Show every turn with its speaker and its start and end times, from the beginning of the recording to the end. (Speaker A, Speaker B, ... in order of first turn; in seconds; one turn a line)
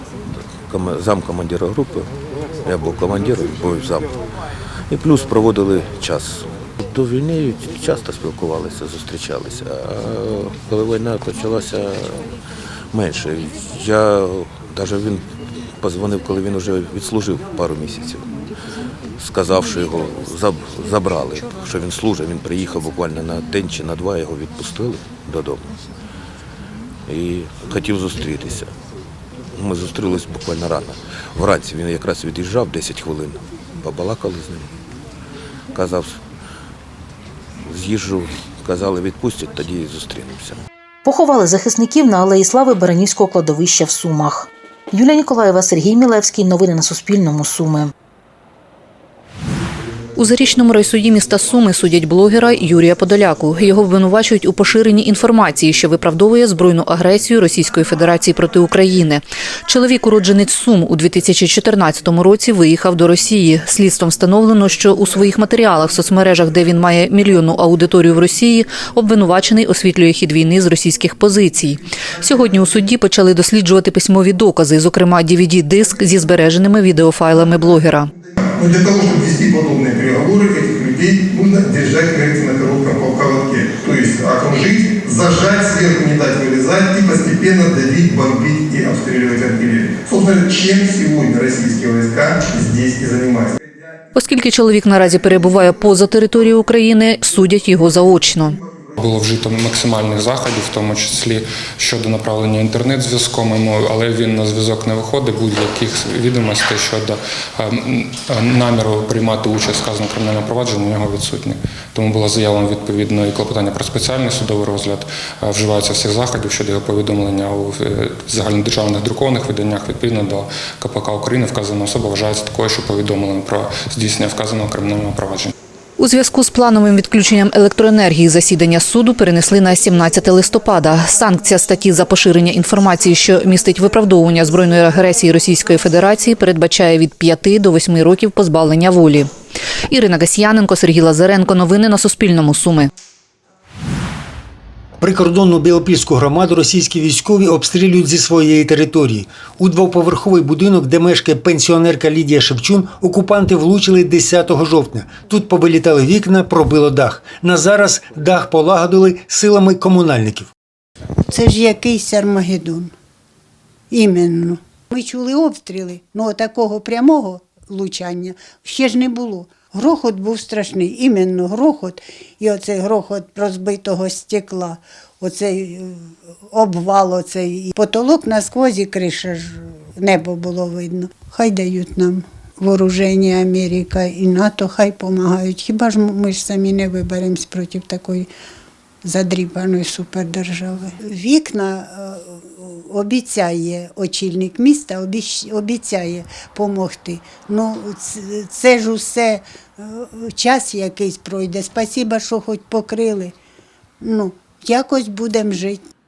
Speaker A: 0.7-4.1
Speaker A: 4.9-12.3
Speaker A: 12.9-15.2
Speaker A: 15.8-18.3
Speaker A: 19.2-25.6
Speaker A: 27.1-28.7
Speaker A: 29.5-34.7
Speaker A: 35.7-36.2
Speaker A: 37.6-40.6
Speaker B: 41.0-47.9
Speaker C: 50.1-78.1
Speaker D: 78.5-93.5
Speaker C: 94.1-98.6
Speaker E: 99.0-125.5
Speaker C: 126.0-139.3
Speaker C: 139.9-142.9
Speaker F: 145.0-160.5
Speaker G: 161.3-162.9
Speaker G: 163.9-188.3
Speaker G: 189.0-203.3
Speaker G: 204.0-205.8